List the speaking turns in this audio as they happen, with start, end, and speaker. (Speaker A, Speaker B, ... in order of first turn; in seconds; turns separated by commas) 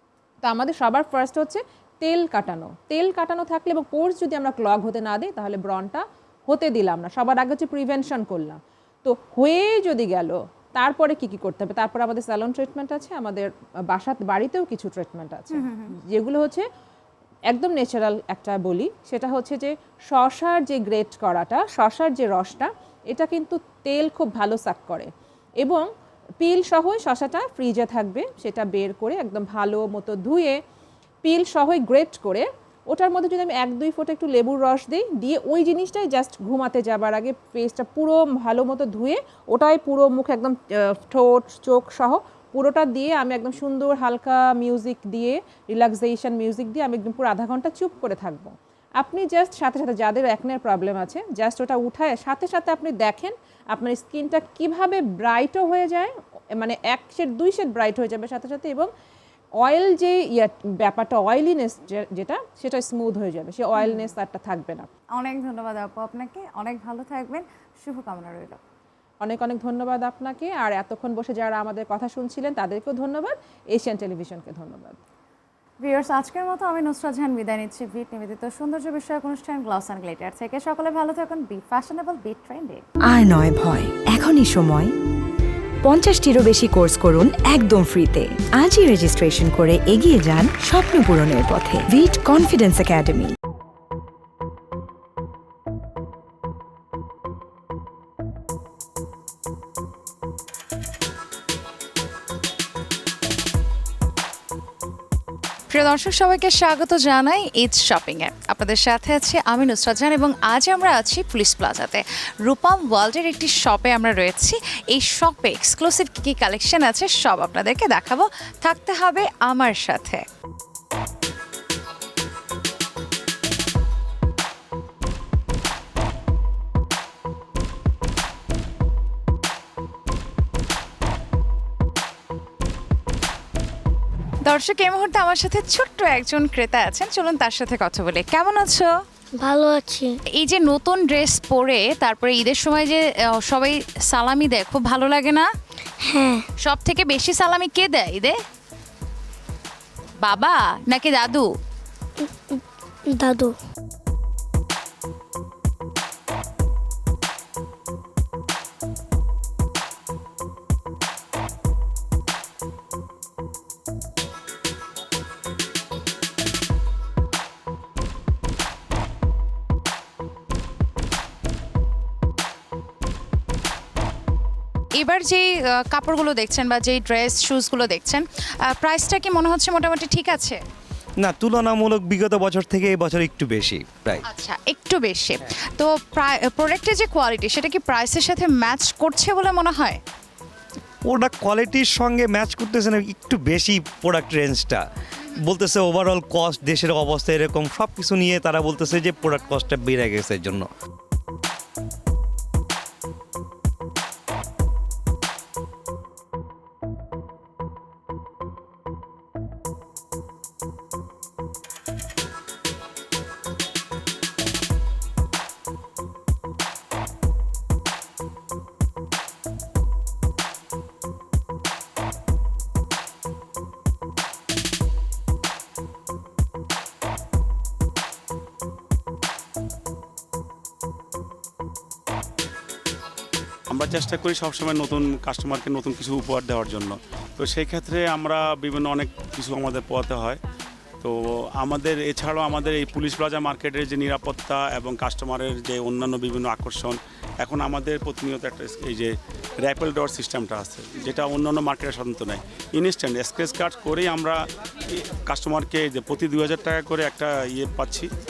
Speaker A: 0.4-16.7, Speaker B: 15.5-15.9, Speaker A: 17.5-25.1, Speaker A: 25.6-25.9, Speaker A: 26.4-30.6, Speaker A: 31.2-58.9, Speaker A: 59.6-64.9, Speaker B: 63.8-64.1, Speaker B: 65.1-68.6, Speaker A: 69.2-75.0, Speaker B: 75.8-82.8, Speaker C: 83.1-84.9, Speaker C: 85.9-93.3, Speaker B: 105.7-120.2, Speaker B: 134.4-138.9, Speaker D: 139.4-140.1, Speaker B: 140.3-145.5, Speaker D: 146.0-146.4, Speaker B: 146.6-148.4, Speaker B: 150.2-151.5, Speaker D: 152.2-153.5, Speaker B: 174.9-180.6, Speaker E: 181.2-184.2, Speaker B: 184.3-190.0, Speaker E: 191.0-200.7, Speaker F: 233.7-240.4, Speaker F: 241.0-258.1